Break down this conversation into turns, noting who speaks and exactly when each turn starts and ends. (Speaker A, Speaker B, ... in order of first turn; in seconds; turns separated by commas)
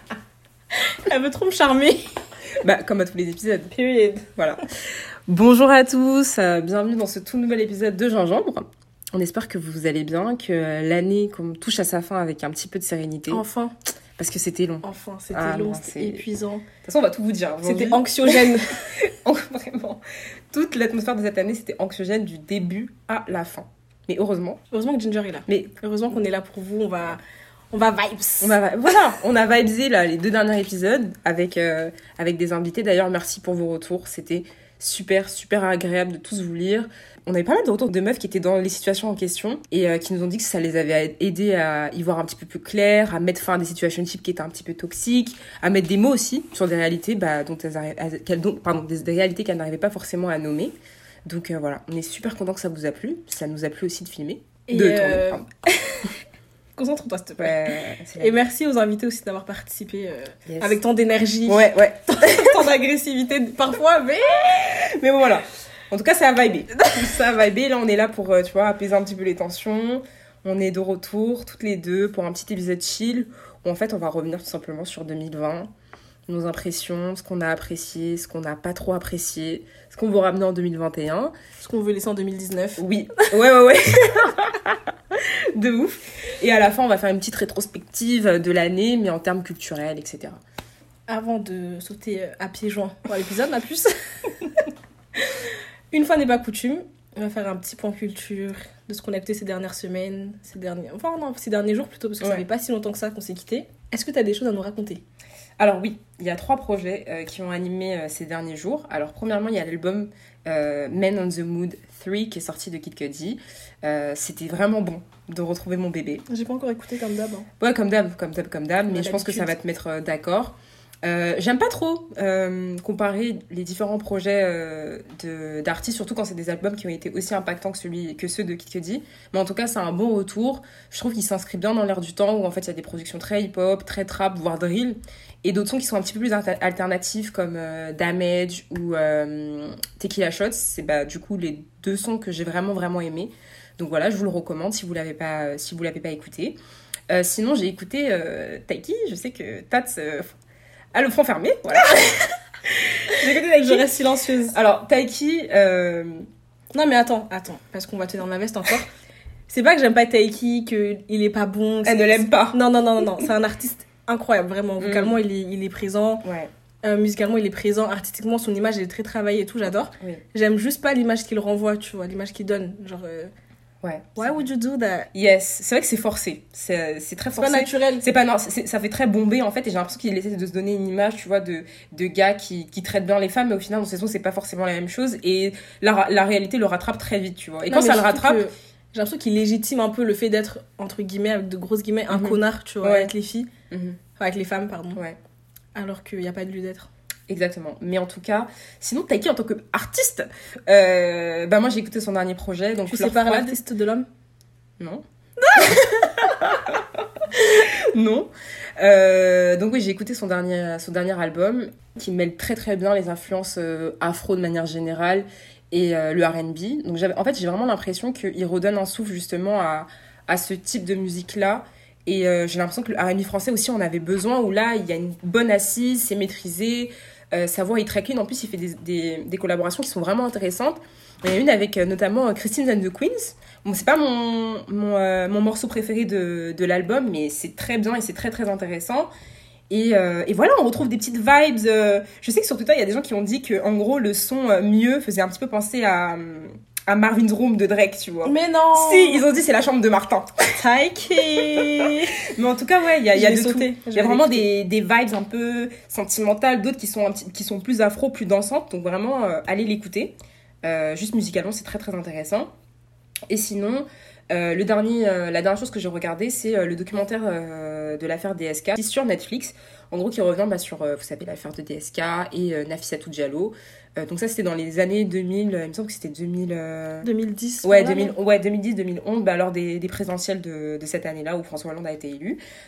Speaker A: 0.7-2.1, Speaker B: 2.6-3.7, Speaker A: 3.7-4.3, Speaker B: 4.3-13.4, Speaker A: 13.3-13.7, Speaker B: 14.2-16.2, Speaker A: 14.8-16.7, Speaker B: 16.8-24.6, Speaker A: 17.6-19.0, Speaker A: 24.7-27.2, Speaker B: 25.5-25.8, Speaker A: 27.7-28.6, Speaker B: 28.4-50.7, Speaker B: 51.2-55.5, Speaker A: 54.7-56.1, Speaker A: 56.8-64.8, Speaker B: 57.4-58.4, Speaker B: 60.5-60.8, Speaker B: 61.5-62.6, Speaker B: 64.5-75.7, Speaker B: 76.3-81.3, Speaker A: 81.6-83.3, Speaker B: 82.8-90.4, Speaker A: 91.1-94.6, Speaker A: 95.2-105.0, Speaker B: 105.6-116.2, Speaker A: 116.3-117.5, Speaker B: 117.6-146.6, Speaker A: 118.9-119.5, Speaker B: 147.1-150.3, Speaker B: 150.9-153.9, Speaker A: 153.1-154.6, Speaker B: 154.5-156.3, Speaker A: 156.7-158.9, Speaker A: 159.5-166.2, Speaker B: 161.8-163.2, Speaker B: 164.8-165.2, Speaker B: 166.2-166.5, Speaker A: 166.8-173.3, Speaker B: 173.8-174.4, Speaker A: 174.2-175.1, Speaker B: 175.1-188.5, Speaker A: 177.4-178.1, Speaker A: 187.7-193.5, Speaker B: 192.1-193.1, Speaker B: 193.7-194.0, Speaker A: 194.2-195.0, Speaker A: 195.7-196.9, Speaker B: 197.3-203.6, Speaker A: 202.9-204.1, Speaker B: 204.8-239.1, Speaker A: 205.5-206.4, Speaker B: 239.7-250.5, Speaker A: 248.2-249.2, Speaker A: 250.6-252.2, Speaker B: 251.3-262.5, Speaker A: 253.1-254.4, Speaker B: 263.3-277.1, Speaker A: 277.0-278.1, Speaker B: 277.6-282.4